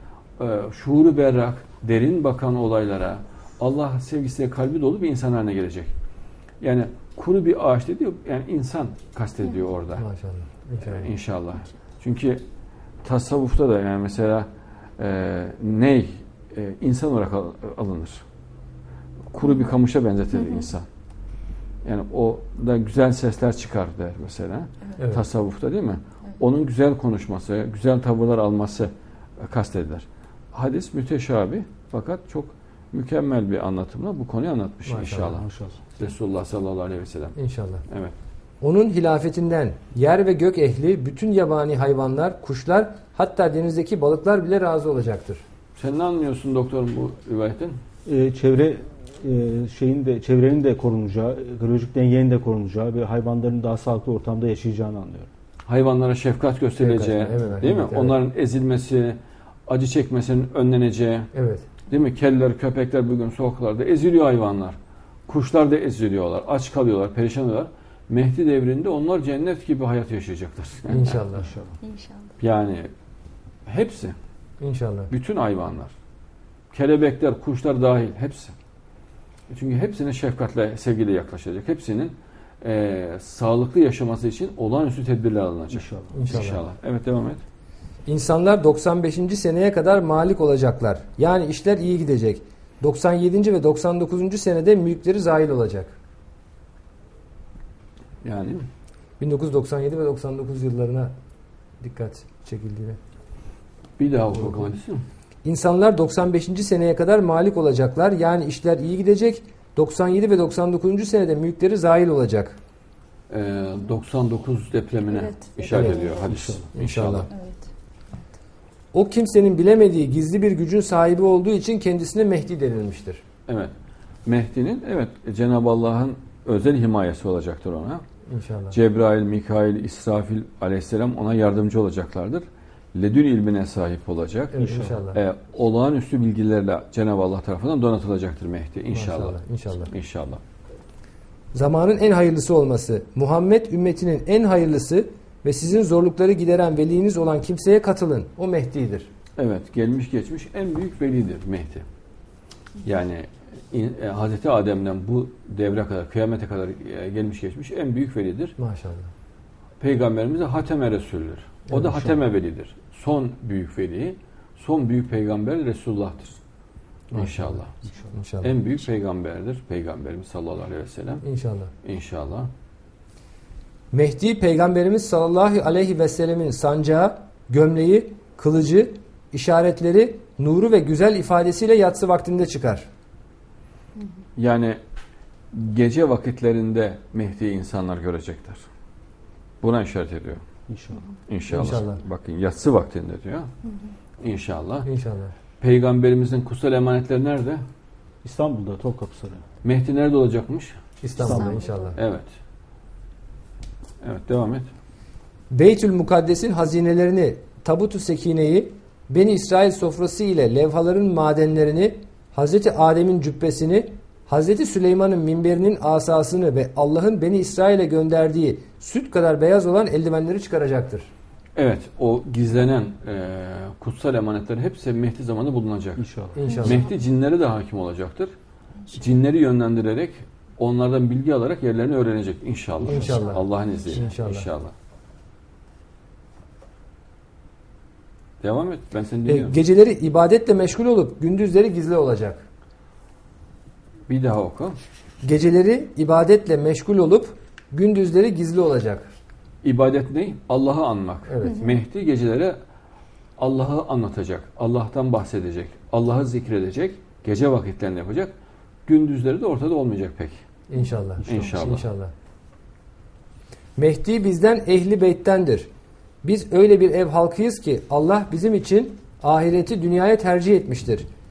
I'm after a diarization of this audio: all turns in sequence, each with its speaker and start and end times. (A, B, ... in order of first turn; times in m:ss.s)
0:00.4-0:05.9 A
0:06.6-0:10.0 A
0:09.9-0:11.1 B
0:10.8-0:12.4 A
0:13.0-0:18.2 A
0:19.3-0:20.9 A
0:21.8-0:37.4 A
0:25.0-0:25.2 B
0:34.8-0:35.4 B
0:35.3-0:35.8 C
0:37.4-0:37.8 B
0:37.9-0:38.1 A
0:38.6-0:45.4 B
0:45.8-0:47.8 A
0:48.1-0:55.3 C
0:55.6-1:01.3 A
0:56.8-0:58.2 B
1:01.3-1:01.7 B
1:01.9-1:11.2 A
1:10.9-1:11.5 B
1:11.3-1:11.8 C
1:11.8-1:12.3 D
1:12.4-1:12.9 A
1:13.7-1:14.2 A
1:14.6-1:15.1 B
1:15.1-1:15.9 A
1:16.7-1:18.6 A
1:19.5-1:27.4 A
1:25.7-1:26.2 C
1:26.1-1:26.6 B
1:28.1-1:36.0 B
1:38.2-1:38.6 A
1:39.2-1:41.1 B
1:41.8-1:43.0 B
1:44.0-1:45.0 A
1:45.4-1:52.6 B
1:53.3-1:57.3 A
1:55.1-1:56.4 D
1:55.7-1:56.0 B
1:55.9-1:56.7 C
1:56.7-1:57.3 B
1:57.3-1:57.6 D
1:58.9-2:03.2 B
2:03.5-2:03.7 A
2:04.3-2:08.0 A
2:08.3-2:08.8 B
2:08.7-2:20.4 A
2:14.5-2:15.2 B
2:14.6-2:15.0 C
2:18.9-2:19.9 B
2:21.5-2:29.1 B
2:29.4-2:31.8 A
2:32.8-2:38.6 A
2:38.6-2:39.1 B
2:39.8-2:46.4 A
2:41.7-2:42.2 C
2:47.1-2:47.6 B
2:47.1-2:47.8 A
2:47.8-2:48.1 C
2:48.1-2:48.5 B
2:48.4-2:51.2 A
2:51.2-2:51.7 B
2:51.8-2:52.5 A
2:53.9-3:02.9 B
3:04.4-3:04.8 A
3:05.5-3:08.6 A
3:09.6-3:10.4 A
3:10.7-3:11.1 C
3:11.3-3:13.5 A
3:11.5-3:12.0 B
3:14.2-3:14.9 A
3:14.8-3:15.4 B
3:15.6-3:17.6 A
3:18.2-3:19.4 C
3:19.6-3:20.8 A
3:21.0-3:22.0 B
3:21.2-3:21.6 C
3:21.2-3:21.9 D
3:22.0-3:22.3 A
3:24.0-3:24.7 A
3:25.5-3:41.1 B
3:41.6-3:46.0 A
3:46.0-3:46.4 C
3:46.4-3:46.8 B
3:46.5-3:46.9 D
3:46.6-3:48.3 A
3:48.9-3:54.7 A
3:52.8-3:54.5 B
3:52.9-3:54.0 D
3:58.4-3:59.6 A
3:59.2-4:02.5 B
4:04.1-4:04.8 A
4:05.2-4:09.1 B
4:09.6-4:12.6 A
4:11.3-4:11.6 B
4:11.4-4:11.8 D
4:13.4-4:18.3 A
4:18.9-4:20.4 A
4:20.7-4:22.1 B
4:21.2-4:21.6 C
4:21.2-4:21.9 A
4:23.8-4:25.7 B
4:26.2-4:31.1 B